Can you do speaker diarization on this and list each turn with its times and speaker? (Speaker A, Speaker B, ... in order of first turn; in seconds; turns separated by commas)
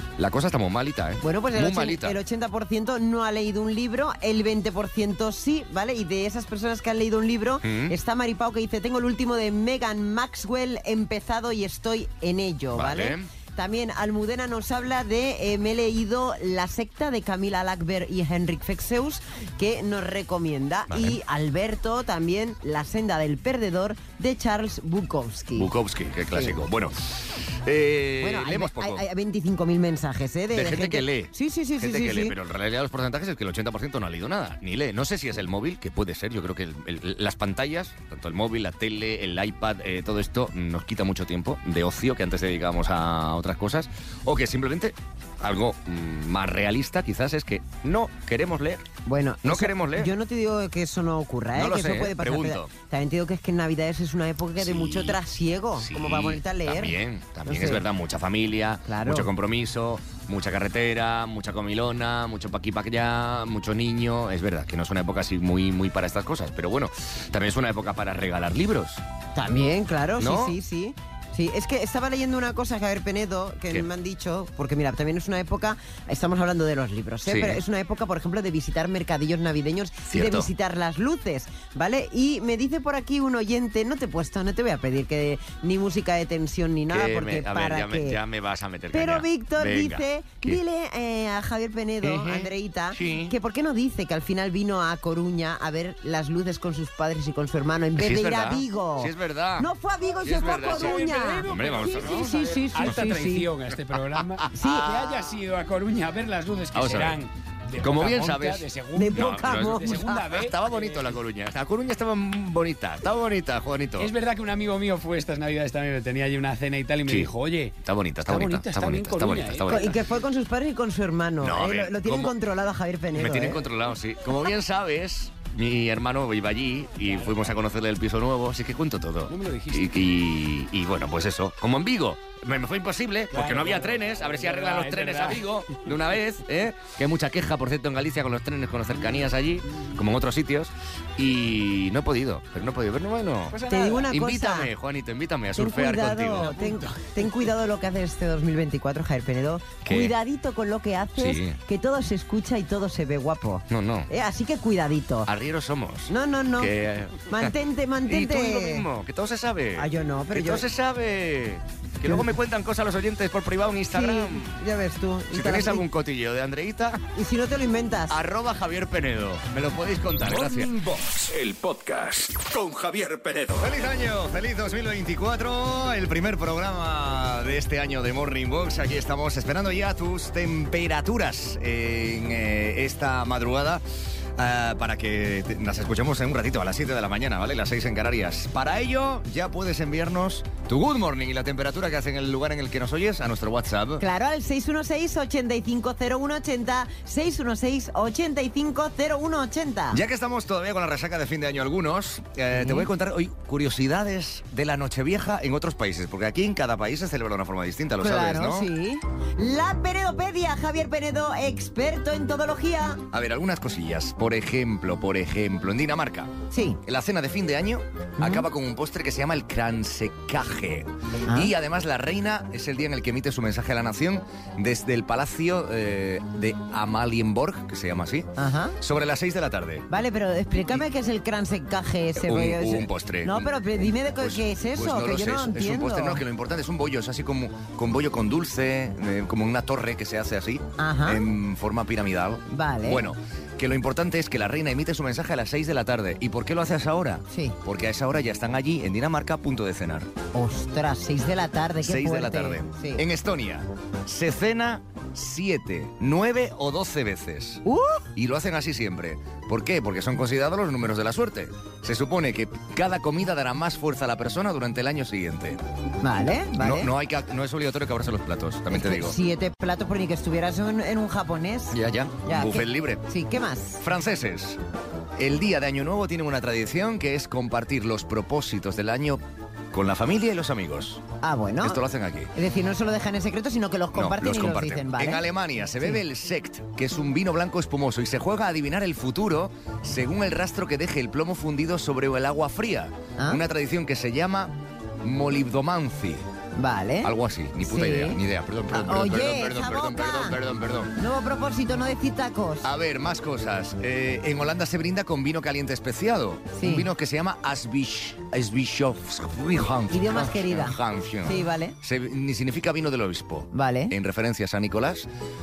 Speaker A: 0.2-2.2, Speaker B: 1.2-25.7, Speaker A: 7.6-7.9, Speaker A: 12.7-13.3, Speaker A: 20.9-21.2, Speaker A: 25.5-29.0, Speaker B: 28.2-32.3, Speaker A: 30.5-48.8, Speaker B: 49.0-57.8, Speaker A: 49.4-50.1, Speaker A: 51.5-52.7, Speaker A: 54.6-55.2, Speaker A: 55.8-69.0, Speaker B: 58.9-59.3, Speaker B: 69.3-88.2, Speaker A: 70.2-70.6, Speaker A: 77.2-77.6, Speaker A: 80.1-80.5, Speaker A: 86.9-90.6, Speaker B: 88.9-103.5, Speaker A: 92.0-93.3, Speaker A: 98.0-99.7, Speaker A: 100.2-103.2, Speaker C: 100.6-111.2, Speaker A: 103.9-105.1, Speaker B: 104.5-105.0, Speaker A: 106.7-107.2, Speaker A: 107.8-114.1, Speaker B: 109.0-110.2, Speaker C: 114.0-117.7, Speaker A: 117.0-120.0, Speaker C: 118.3-120.0, Speaker B: 119.7-123.6, Speaker A: 121.4-122.3, Speaker A: 123.1-143.6, Speaker C: 127.0-127.5, Speaker C: 129.3-129.9, Speaker C: 133.3-135.9, Speaker C: 143.5-144.1, Speaker B: 143.7-144.7, Speaker A: 144.1-146.7, Speaker B: 145.6-155.3, Speaker C: 146.5-146.9, Speaker A: 149.8-150.1, Speaker A: 151.2-151.6, Speaker A: 153.7-154.1, Speaker A: 155.2-157.5, Speaker B: 156.1-156.7, Speaker B: 157.3-158.8, Speaker A: 158.1-164.6, Speaker B: 159.8-160.7, Speaker B: 162.1-162.3, Speaker B: 163.9-165.8, Speaker A: 165.3-167.0, Speaker B: 167.1-168.2, Speaker A: 168.1-170.7, Speaker D: 170.3-173.7, Speaker A: 173.6-183.8, Speaker A: 184.4-194.0, Speaker B: 194.0-200.0, Speaker A: 199.9-208.7, Speaker B: 202.6-202.9, Speaker B: 208.0-213.0, Speaker A: 213.1-216.3, Speaker B: 216.5-216.8, Speaker A: 216.8-228.3, Speaker B: 218.2-218.5, Speaker B: 221.3-221.5, Speaker B: 228.4-228.8, Speaker A: 228.8-229.9, Speaker B: 229.9-236.2, Speaker A: 230.5-230.8, Speaker A: 232.2-233.5, Speaker A: 234.2-250.1, Speaker B: 240.8-241.2, Speaker B: 242.5-243.0, Speaker B: 247.3-247.6, Speaker B: 250.3-253.0, Speaker A: 251.8-257.6, Speaker B: 257.6-258.1, Speaker A: 258.1-265.6, Speaker B: 266.0-266.9, Speaker A: 266.6-269.1, Speaker B: 268.7-273.8, Speaker A: 271.7-273.0, Speaker A: 273.8-274.6, Speaker A: 275.2-281.0, Speaker B: 281.2-281.8, Speaker A: 281.6-282.3, Speaker B: 282.3-285.2, Speaker A: 283.9-296.3, Speaker B: 296.6-297.1, Speaker A: 297.0-300.9, Speaker B: 297.6-298.2, Speaker B: 298.7-300.4, Speaker B: 301.0-302.7, Speaker A: 302.6-315.1, Speaker B: 306.6-306.9, Speaker B: 309.9-311.8, Speaker B: 313.5-313.9